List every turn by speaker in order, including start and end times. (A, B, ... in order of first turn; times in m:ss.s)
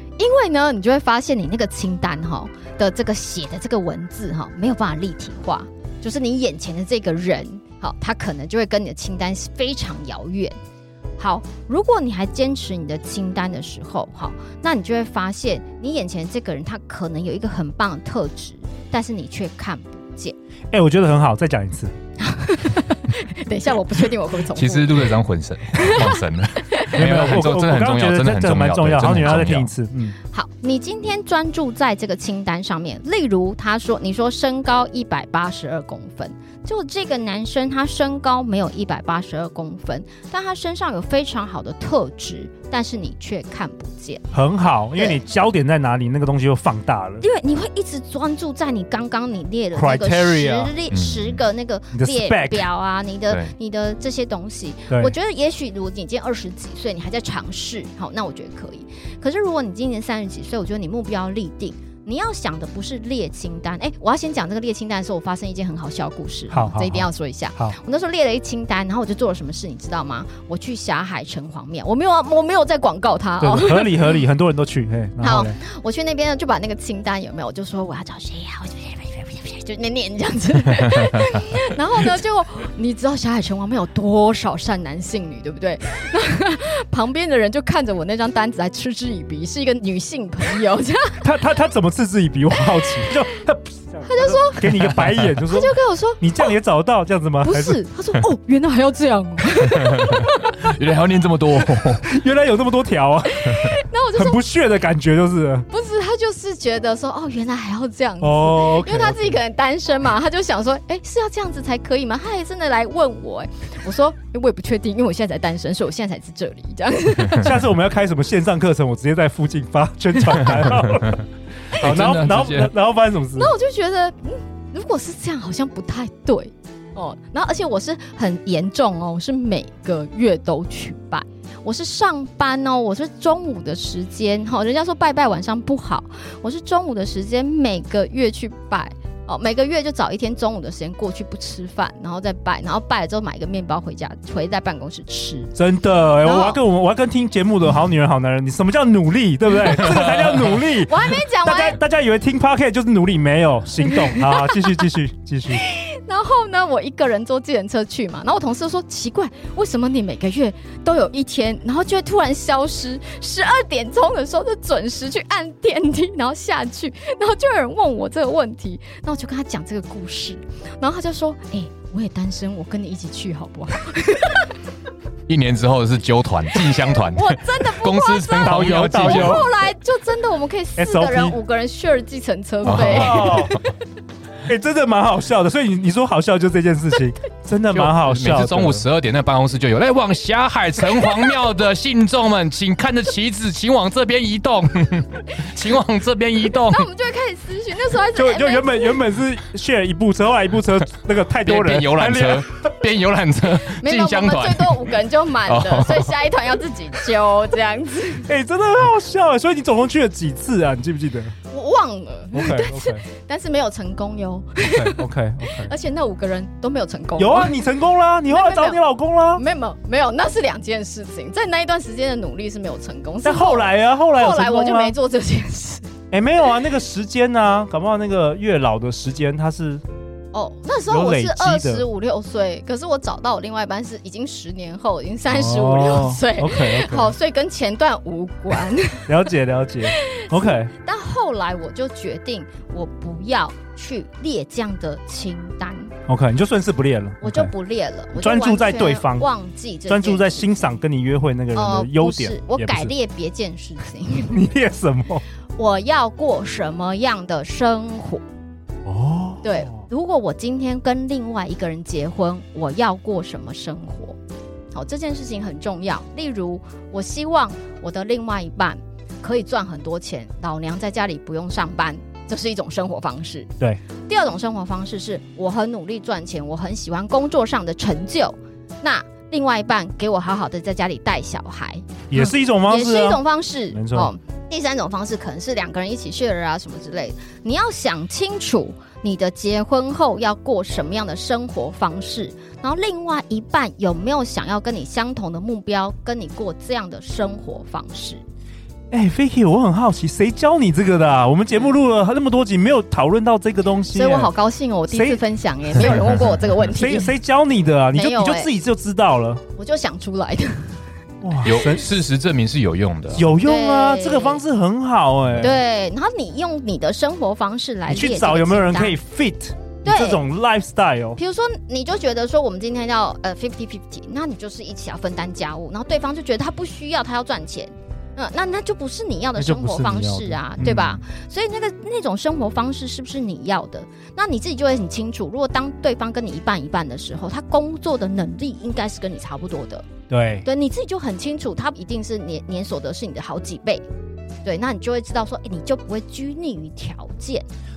0:00.2-0:10.6 A
0:11.2-0:20.4 A
0:20.7-0:21.9 B
0:22.2-0:25.1 A
0:24.5-0:29.7 C
0:25.7-0:27.0 A
0:26.9-0:30.2 B
0:30.3-0:44.3 A
0:44.3-0:47.2 B
0:47.2-1:13.9 A
0:49.8-0:50.7 B
0:50.9-0:51.4 C
0:51.9-0:52.7 B
1:06.5-1:07.8 B
1:13.4-1:15.6 B
1:15.2-1:31.2 A
1:31.2-1:37.8 B
1:34.0-1:36.5 A
1:34.9-1:35.3 C
1:37.4-1:40.5 A
1:39.8-1:42.1 C
1:42.0-1:45.7 B
1:43.5-1:44.4 A
1:45.7-1:57.5 A
1:48.2-1:49.4 B
1:57.4-2:01.2 B
2:01.7-2:02.7 C
2:01.7-2:03.5 B
2:03.4-2:25.5 A
2:25.6-2:35.6 B
2:26.2-2:26.6 A
2:30.8-2:31.8 A
2:34.2-2:34.6 A
2:35.5-2:54.5 A
2:55.3-2:59.5 C
2:57.0-3:03.6 A
2:58.4-2:59.5 B
3:00.8-3:01.4 B
3:02.6-3:03.6 C
3:02.7-3:03.6 B
3:04.5-3:08.8 B
3:07.7-3:16.9 C
3:16.7-3:19.0 A
3:18.2-3:22.5 B
3:21.4-3:26.2 C
3:23.8-3:28.3 A
3:28.3-3:31.3 B
3:31.5-3:35.0 A
3:32.3-3:33.0 B
3:34.6-3:35.7 B
3:35.6-3:37.6 A
3:37.2-3:39.4 B
3:38.3-3:38.8 A
3:39.4-3:45.9 A
3:43.2-3:45.0 B
3:46.1-3:49.8 B
3:50.3-3:59.1 A
3:50.9-3:51.9 B
3:55.3-3:57.1 B
3:59.1-4:00.7 B
3:59.9-4:05.9 A
4:06.1-4:07.5 B
4:07.2-4:10.7 A
4:08.2-4:09.3 B
4:09.9-4:12.9 B
4:11.5-4:14.4 A
4:14.3-4:15.2 B
4:15.6-4:18.2 A
4:18.9-4:19.8 B
4:19.4-4:24.2 A
4:24.7-4:33.5 A
4:34.1-4:58.2 A
4:42.1-4:44.1 B
4:58.9-5:04.3 B
5:03.9-5:07.1 A
5:04.9-5:05.2 B
5:05.8-5:06.0 B
5:06.7-5:09.4 B
5:07.9-5:08.5 A
5:09.6-5:10.8 A
5:11.2-5:11.9 B
5:11.4-5:13.3 C
5:13.1-5:15.6 B
5:13.4-5:14.4 A
5:15.4-5:19.0 A
5:17.9-5:21.2 B
5:19.8-5:20.2 A
5:21.2-5:39.9 A
5:29.4-5:31.0 B
5:40.1-5:40.5 B
5:40.4-5:43.8 A
5:44.4-5:47.5 A